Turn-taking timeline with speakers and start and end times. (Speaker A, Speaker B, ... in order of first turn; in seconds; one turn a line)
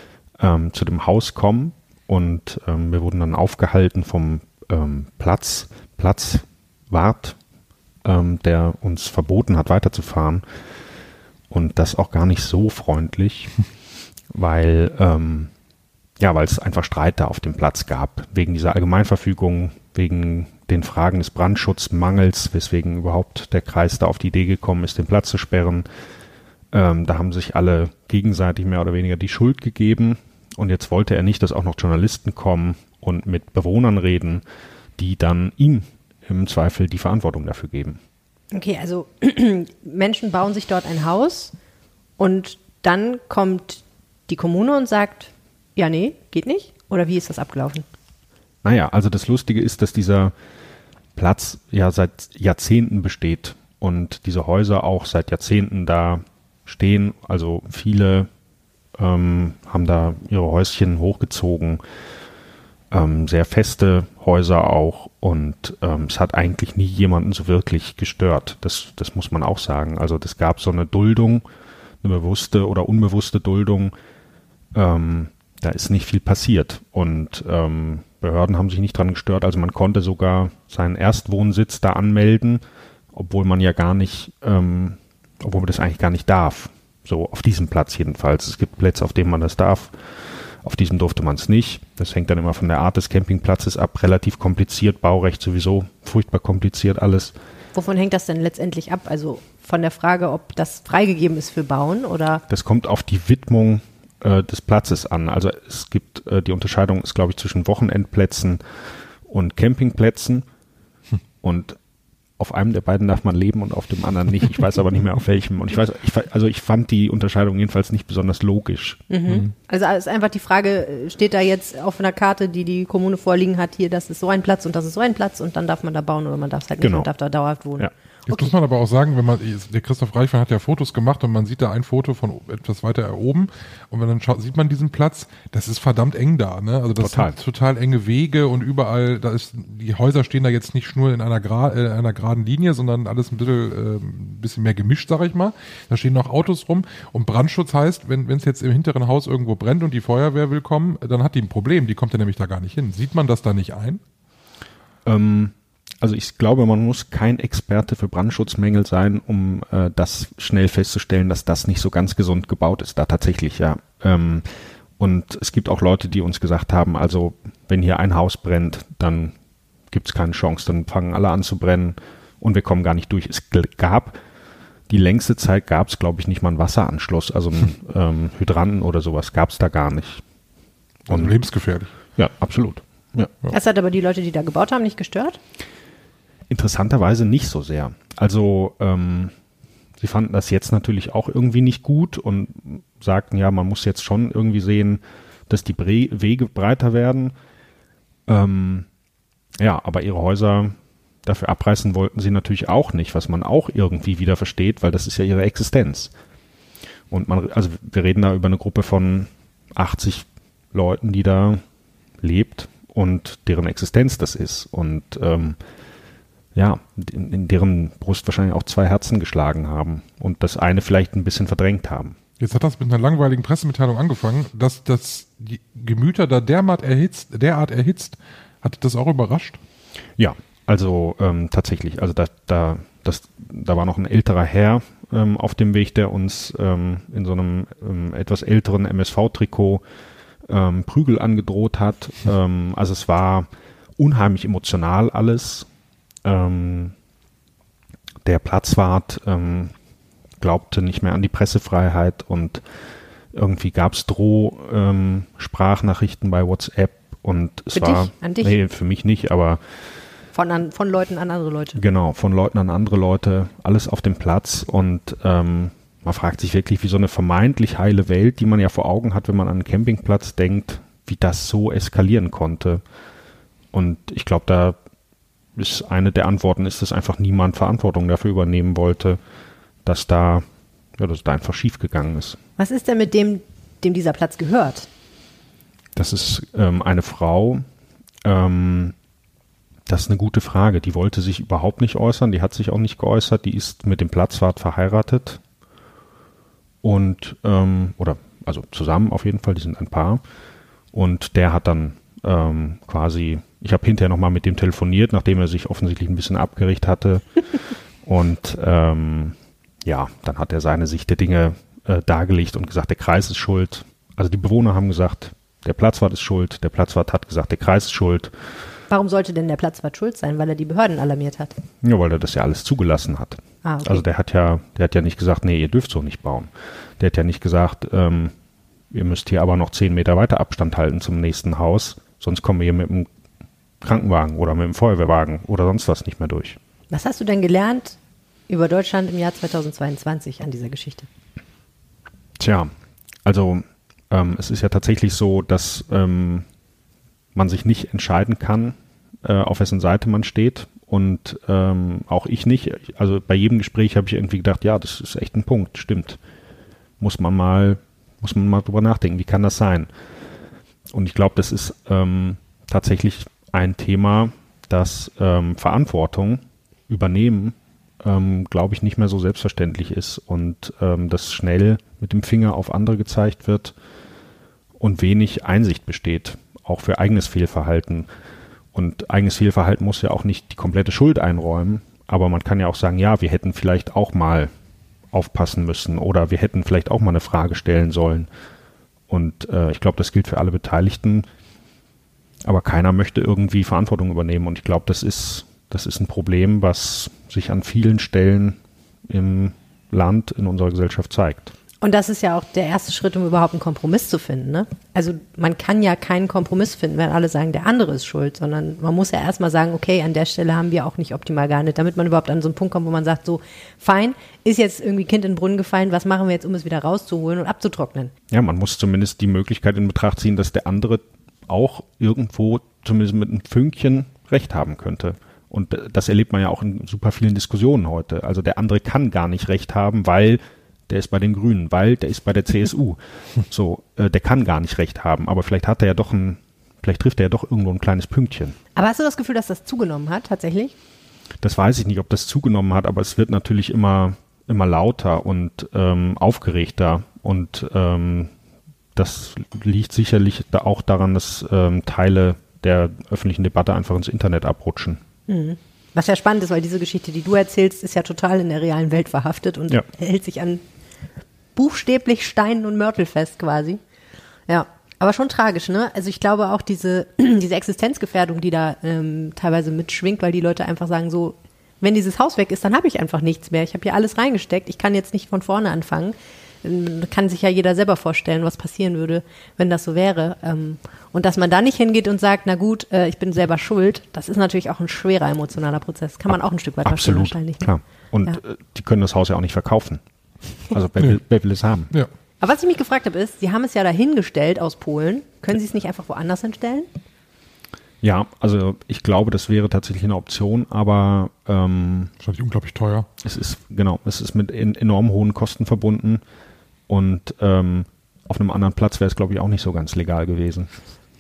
Speaker A: 0.4-7.4
Speaker A: 8.0-10.4
Speaker A: 11.5-13.6
Speaker A: 14.3-15.5
Speaker A: 16.2-25.9
Speaker A: 26.7-34.4
Speaker A: 35.0-38.0
Speaker B: 38.5-41.5
Speaker B: 42.2-47.9
Speaker A: 48.6-50.3
Speaker A: 51.2-58.3
Speaker A: 59.0-61.8
Speaker A: 62.9-71.4
Speaker A: 72.0-73.9
Speaker A: 74.7-82.6
Speaker A: 83.1-97.3
Speaker B: 97.8-102.4
Speaker A: 102.5-110.5
Speaker A: 111.4-111.8
Speaker A: 112.4-119.0
Speaker B: 119.1-128.5
Speaker A: 126.8-127.1
Speaker C: 128.3-154.0
Speaker A: 137.0-137.3
Speaker A: 155.1-169.3
Speaker A: 169.9-174.2
Speaker A: 174.9-180.2
Speaker A: 181.1-181.4
Speaker C: 181.1-181.9
Speaker A: 182.2-183.3
Speaker B: 183.5-185.4
Speaker A: 186.5-189.3
Speaker A: 190.0-197.3
Speaker A: 198.3-198.9
Speaker A: 199.6-206.1
Speaker A: 207.1-211.6
Speaker A: 212.2-215.6
Speaker A: 216.6-222.2
Speaker C: 222.4-229.6
Speaker A: 230.2-239.8
Speaker A: 240.5-243.5
Speaker A: 244.0-245.7
Speaker A: 246.2-246.9
Speaker A: 248.2-249.7
Speaker A: 250.4-252.6
Speaker A: 253.3-259.6
Speaker B: 257.7-258.6
Speaker B: 260.3-261.8
Speaker A: 261.8-272.8
Speaker A: 273.7-274.8
Speaker A: 275.6-279.2
Speaker A: 279.9-280.4
Speaker A: 281.0-282.4
Speaker B: 282.6-284.9
Speaker A: 286.0-287.6
Speaker A: 288.2-288.9
Speaker A: 289.9-295.4
Speaker A: 296.8-300.2
Speaker A: 300.9-307.5
Speaker A: 308.0-318.3
Speaker B: 318.9-321.5
Speaker A: 321.8-328.3
Speaker B: 323.6-324.0
Speaker A: 328.9-333.1
Speaker A: 333.8-336.6
Speaker B: 336.9-338.0
Speaker B: 338.5-341.1
Speaker A: 342.4-342.7
Speaker A: 343.2-346.4
Speaker A: 347.4-356.2
Speaker A: 357.0-359.9
Speaker A: 360.9-373.7
Speaker A: 374.8-378.1
Speaker A: 378.7-384.5
Speaker A: 385.1-388.3
Speaker A: 389.1-391.3
Speaker A: 392.4-401.5
Speaker B: 401.8-418.1
Speaker A: 418.3-438.6
Speaker B: 438.8-440.7
Speaker A: 441.4-448.3
Speaker A: 449.0-455.0
Speaker B: 455.3-460.6
Speaker B: 461.6-463.8
Speaker B: 464.5-487.7
Speaker A: 486.9-490.0
Speaker A: 490.7-491.9
Speaker B: 492.4-496.9
Speaker A: 498.0-502.1
Speaker C: 502.2-503.1
Speaker A: 503.2-506.2
Speaker A: 506.9-510.7